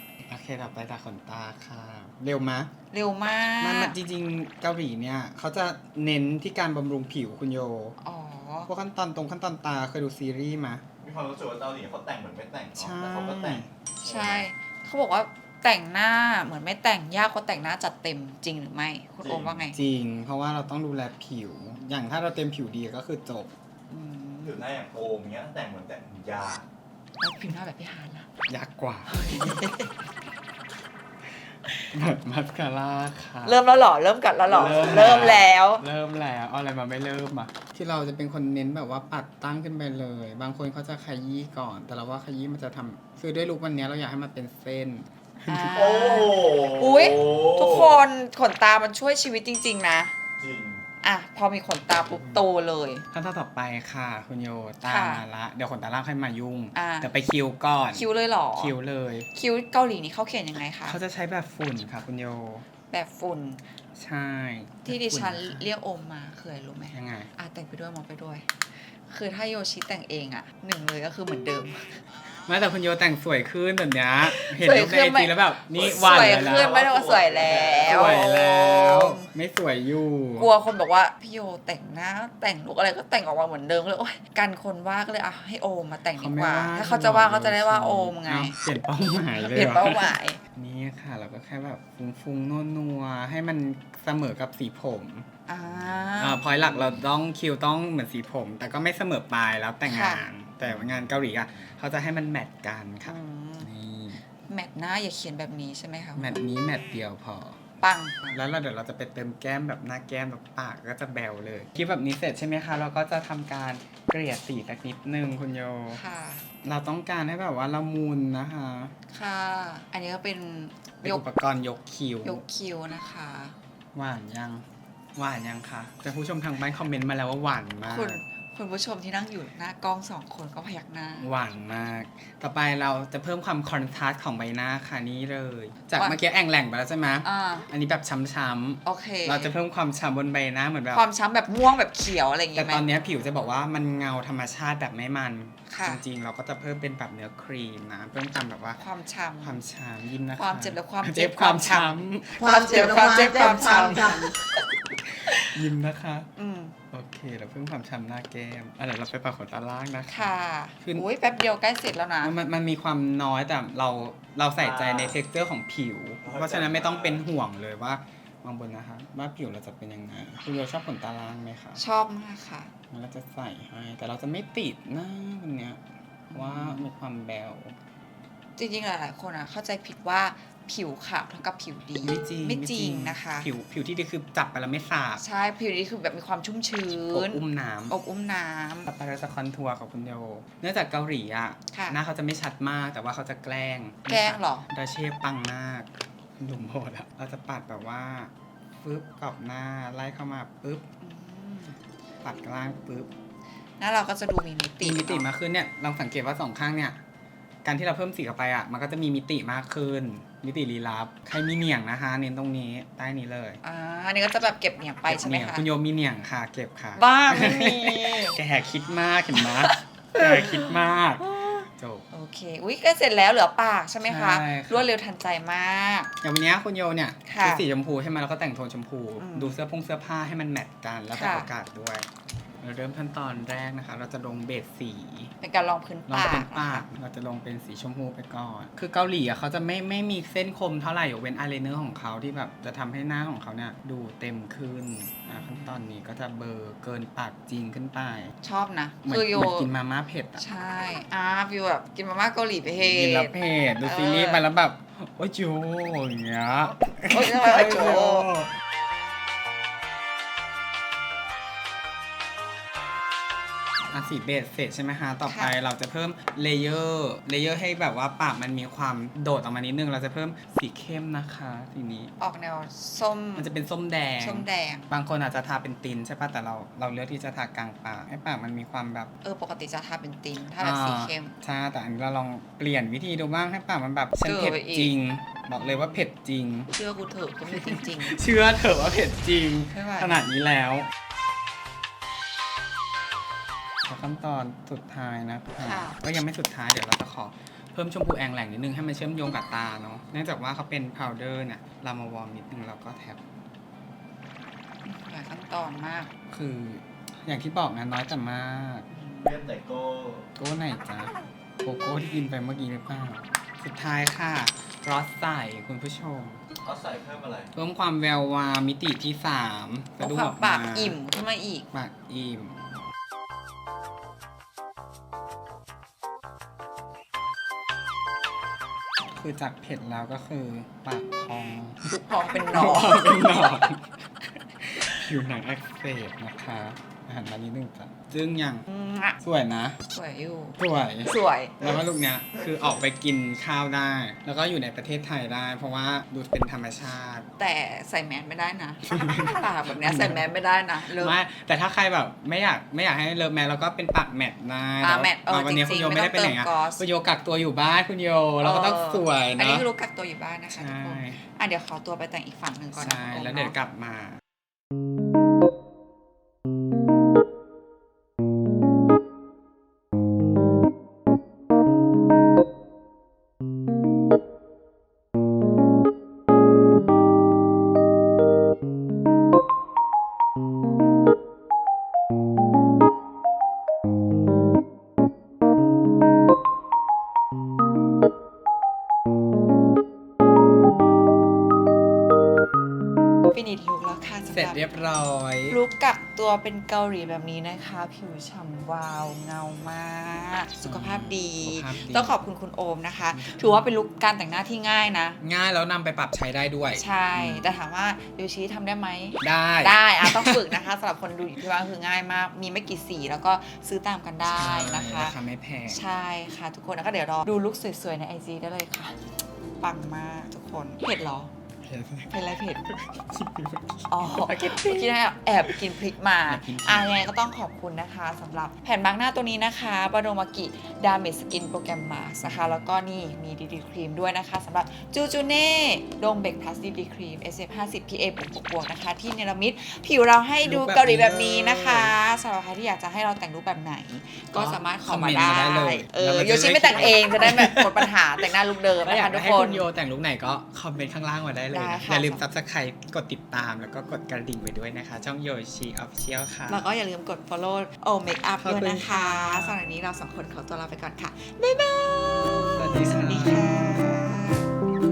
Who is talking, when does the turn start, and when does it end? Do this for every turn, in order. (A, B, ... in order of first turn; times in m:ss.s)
0:00.3-0:02.7 A
0:02.9-0:04.0 B
0:03.6-0:08.0 A
0:08.0-0:08.7 B
0:08.7-0:10.8 A
0:11.0-0:14.5 C
0:12.8-0:13.7 A
0:14.0-0:19.8 B
0:19.2-0:19.6 C
0:19.7-0:23.5 A
0:23.9-0:24.6 B
0:24.4-0:26.6 C
0:27.2-0:28.3 B
0:28.5-0:29.6 A
0:29.1-0:30.0 B
0:31.9-0:33.6 A
0:33.4-0:35.8 B
0:34.5-0:46.0 A
0:45.5-0:50.1 B
0:45.7-0:47.9 C
0:50.4-0:50.8 C
0:51.0-0:53.1 B
0:51.9-0:52.4 A
0:53.1-0:59.3 A
0:54.8-0:55.2 B
0:56.8-0:57.1 B
0:57.9-0:58.8 B
0:59.3-1:01.0 B
1:00.9-1:02.7 A
1:02.9-1:03.6 B
1:04.0-1:05.6 A
1:04.8-1:08.5 B
1:06.9-1:07.3 A
1:09.1-1:12.0 B
1:12.5-1:16.8 A
1:14.2-1:19.3 B
1:15.8-1:18.2 C
1:17.8-1:20.5 A
1:20.4-1:28.6 B
1:26.2-1:35.3 A
1:29.3-1:30.4 B
1:35.5-1:36.8 B
1:36.2-1:44.3 A
1:39.9-1:40.3 B
1:43.0-1:43.7 B
1:44.4-1:46.4 B
1:46.2-1:47.6 A
1:47.8-1:48.4 B
1:48.3-1:56.0 A
1:55.9-1:56.5 B
1:56.6-1:58.9 A
1:59.1-2:01.2 B
2:01.0-2:02.4 A
2:02.2-2:03.6 B
2:03.9-2:08.2 A
2:07.8-2:11.3 B
2:11.2-2:21.0 A
2:15.8-2:16.2 B
2:17.2-2:17.7 B
2:18.8-2:19.5 B
2:20.9-2:22.9 B
2:22.6-2:28.8 A
2:25.7-2:26.0 B
2:28.8-2:29.6 B
2:29.4-2:34.3 A
2:30.3-2:34.6 B
2:35.0-2:36.3 A
2:35.3-2:35.6 B
2:36.4-2:36.8 B
2:36.9-2:41.1 A
2:40.1-2:42.4 B
2:42.2-2:51.8 A
2:44.6-2:45.2 C
2:46.2-2:47.2 C
2:51.8-2:52.7 B
2:52.9-2:55.8 A
2:56.3-2:56.9 B
2:56.3-2:57.8 A
2:58.6-3:03.5 B
3:02.0-3:05.2 A
3:05.2-3:08.9 B
3:07.1-3:08.0 A
3:08.9-3:20.8 A
3:11.7-3:12.0 B
3:14.1-3:14.7 B
3:21.0-3:21.8 B
3:22.2-3:23.1 A
3:23.8-3:25.3 B
3:24.8-3:27.0 A
3:27.6-3:33.6 A
3:33.6-3:35.7 B
3:35.1-3:42.1 A
3:37.0-3:38.4 B
3:39.4-3:40.7 B
3:41.3-3:46.1 B
3:44.0-3:44.9 A
3:46.2-3:52.1 A
3:47.2-3:47.6 B
3:49.2-3:49.6 B
3:51.1-3:51.5 B
3:52.6-3:55.3 A
3:55.4-3:56.9 B
3:56.1-4:08.4 A
4:05.2-4:05.8 B
4:08.4-4:09.7 B
4:09.0-4:10.4 A
4:10.4-4:14.5 B
4:12.6-4:18.5 A
4:17.1-4:18.3 B
4:23.9-4:32.1 A
4:25.3-4:25.6 B
4:32.2-4:33.5 B
4:33.4-4:39.1 A
4:34.2-4:34.9 B
4:39.2-4:41.4 B
4:40.6-4:46.7 A
4:44.2-4:44.9 B
4:45.6-4:46.1 B
4:46.7-4:48.2 B
4:47.5-4:50.9 A
4:49.7-4:50.2 B
4:53.9-5:03.2 A
4:55.6-4:56.0 B
5:04.8-5:06.1 B
5:06.3-5:08.9 A
5:08.9-5:09.6 B
5:09.2-5:10.3 C
5:10.4-5:16.4 A
5:16.6-5:17.5 C
5:17.5-5:21.0 A
5:20.0-5:21.7 B
5:21.7-5:22.7 A
5:29.1-5:31.9 A
5:31.8-5:33.0 B
5:32.5-5:38.7 A
5:38.7-5:39.2 B
5:39.2-5:39.8 A
5:39.9-5:41.8 B
5:40.6-5:47.3 A
5:47.4-5:51.2 B
5:48.9-5:50.2 A
5:50.8-5:59.7 A
5:54.8-5:56.8 B
5:58.4-6:03.6 B
6:00.5-6:01.2 A
6:02.7-6:04.2 A
6:33.3-6:34.7 B
6:34.3-6:35.6 A
6:35.5-6:45.2 B
6:40.6-6:42.2 A
6:43.1-6:43.6 A
6:45.2-6:47.4 A
6:46.8-6:59.0 B
6:49.2-6:50.6 A
6:54.2-6:55.8 A
6:59.6-7:01.3 B
7:01.6-7:07.1 A
7:02.1-7:02.6 B
7:03.9-7:29.7 B
7:12.2-7:12.7 A
7:20.4-7:22.0 A
7:24.3-7:28.2 A
7:28.8-7:36.6 A
7:31.5-7:32.3 B
7:36.5-7:44.5 B
7:38.4-7:39.6 A
7:42.5-7:44.2 A